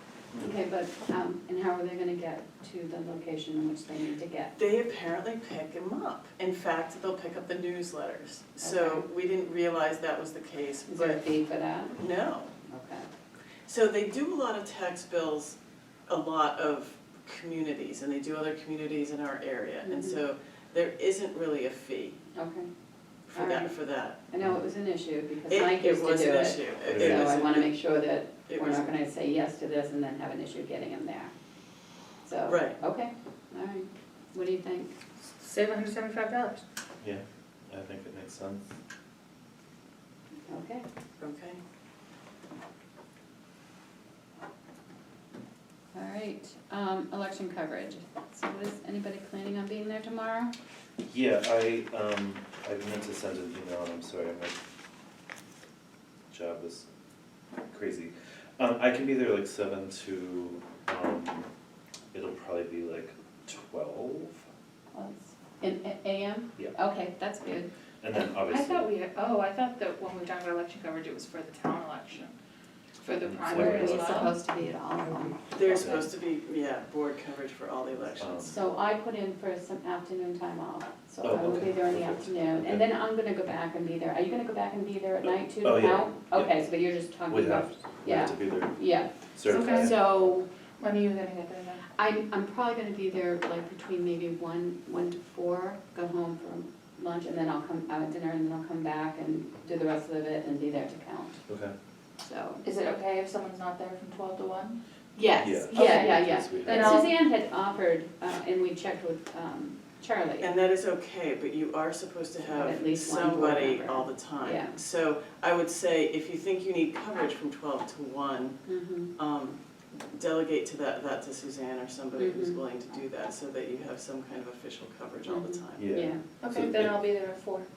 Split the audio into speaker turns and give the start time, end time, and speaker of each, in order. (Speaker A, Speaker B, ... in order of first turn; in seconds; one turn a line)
Speaker A: 0.4-4.6
Speaker B: 4.6-11.2
Speaker A: 8.6-9.1
Speaker A: 10.9-12.0
Speaker B: 11.9-12.5
Speaker A: 12.7-13.1
Speaker B: 13.7-15.6
Speaker B: 16.1-22.2
Speaker A: 19.9-20.2
Speaker A: 22.4-22.7
Speaker B: 23.3-24.2
Speaker A: 23.3-23.7
Speaker A: 24.3-31.3
Speaker B: 25.5-27.8
Speaker C: 26.9-27.3
Speaker B: 28.5-28.9
Speaker A: 32.2-34.9
Speaker B: 32.5-32.8
Speaker D: 35.3-36.6
Speaker C: 37.0-38.6
Speaker A: 40.5-40.8
Speaker B: 41.2-41.6
Speaker A: 45.9-50.5
Speaker C: 51.1-54.6
Speaker C: 56.3-56.9
Speaker C: 57.7-61.5
Speaker C: 62.1-64.4
Speaker A: 64.9-67.7
Speaker C: 68.0-68.9
Speaker D: 68.4-72.3
Speaker D: 73.0-74.4
Speaker C: 73.2-74.3
Speaker A: 73.4-76.0
Speaker B: 75.5-78.6
Speaker C: 75.8-76.1
Speaker C: 78.2-78.5
Speaker A: 78.5-90.5
Speaker C: 81.2-82.8
Speaker C: 85.2-86.6
Speaker C: 87.3-90.0
Speaker D: 89.5-90.1
Speaker D: 90.8-91.9
Speaker A: 92.0-101.4
Speaker C: 101.5-101.7
Speaker A: 102.2-102.6
Speaker D: 102.6-104.8
Speaker A: 105.2-110.5
Speaker C: 105.4-107.1
Speaker D: 105.7-107.1
Speaker B: 110.4-118.6
Speaker A: 112.5-114.8
Speaker A: 118.7-119.1
Speaker B: 119.2-125.9
Speaker A: 122.2-122.6
Speaker A: 125.3-126.2
Speaker C: 125.8-127.0
Speaker D: 126.4-127.7